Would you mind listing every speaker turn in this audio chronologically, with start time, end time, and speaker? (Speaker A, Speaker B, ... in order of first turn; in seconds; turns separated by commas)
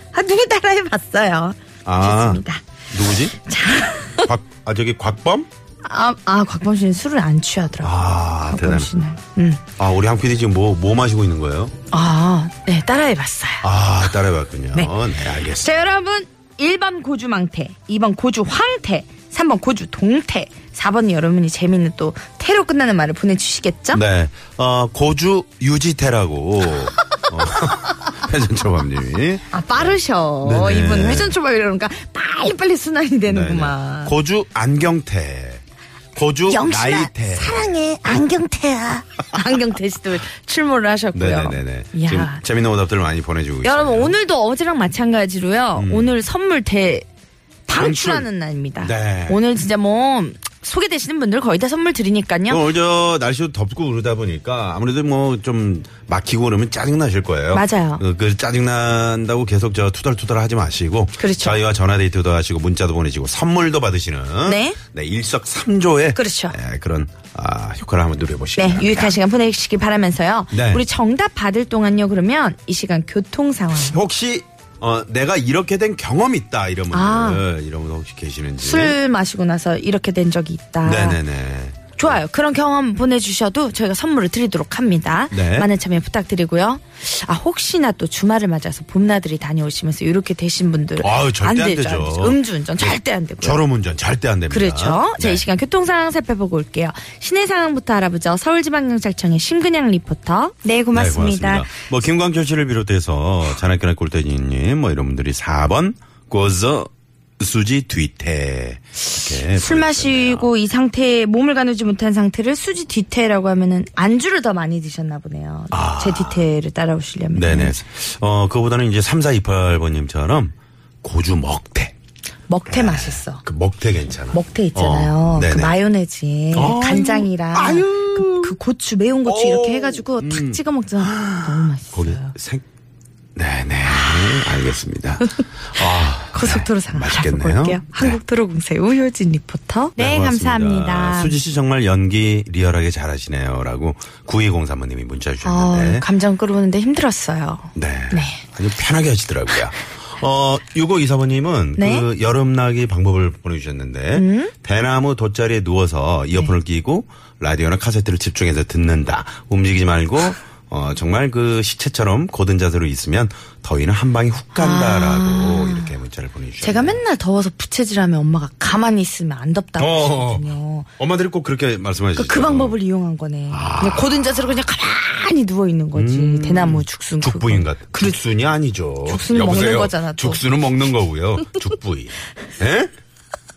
Speaker A: 0.1-2.6, Speaker B: 1.9-3.4, Speaker A: 3.4-4.3, Speaker B: 4.2-5.5, Speaker A: 5.8-8.0, Speaker B: 7.8-8.9, Speaker A: 8.5-9.6, Speaker B: 9.8-11.7, Speaker A: 11.9-13.7, Speaker B: 13.6-15.8, Speaker A: 15.5-24.0, Speaker B: 23.9-31.4, Speaker A: 27.5-27.9, Speaker A: 29.5-34.2, Speaker B: 33.3-35.6, Speaker B: 36.1-37.8, Speaker A: 36.5-42.4, Speaker B: 41.1-44.1, Speaker A: 43.6-47.1, Speaker B: 45.8-46.2, Speaker A: 47.7-52.6, Speaker B: 47.7-49.4, Speaker B: 52.5-69.2, Speaker A: 57.5-58.0, Speaker A: 61.2-61.6, Speaker A: 64.5-64.8, Speaker A: 66.2-66.6, Speaker A: 68.6-74.0, Speaker B: 70.5-70.8, Speaker B: 73.9-79.0, Speaker A: 76.9-77.4, Speaker A: 78.6-81.2, Speaker B: 80.8-82.2, Speaker A: 82.0-93.6, Speaker B: 85.3-85.7, Speaker B: 91.0-95.4, Speaker A: 94.5-101.7, Speaker B: 100.9-110.5, Speaker A: 109.2-117.8, Speaker B: 115.7-116.5, Speaker B: 117.3-122.0, Speaker A: 122.5-123.4, Speaker B: 122.7-125.7, Speaker A: 124.3-132.3, Speaker B: 126.5-128.6, Speaker B: 129.2-132.6, Speaker B: 133.4-138.2, Speaker A: 134.0-134.5, Speaker A: 135.8-141.4, Speaker B: 140.0-146.1, Speaker A: 145.4-148.4, Speaker B: 147.7-167.0, Speaker A: 151.8-152.1, Speaker A: 154.1-154.5, Speaker A: 164.6-165.9, Speaker A: 166.6-170.9, Speaker B: 169.8-170.5, Speaker B: 171.0-172.8, Speaker A: 172.2-178.2, Speaker B: 173.5-174.7, Speaker B: 175.9-182.9, Speaker A: 179.1-180.4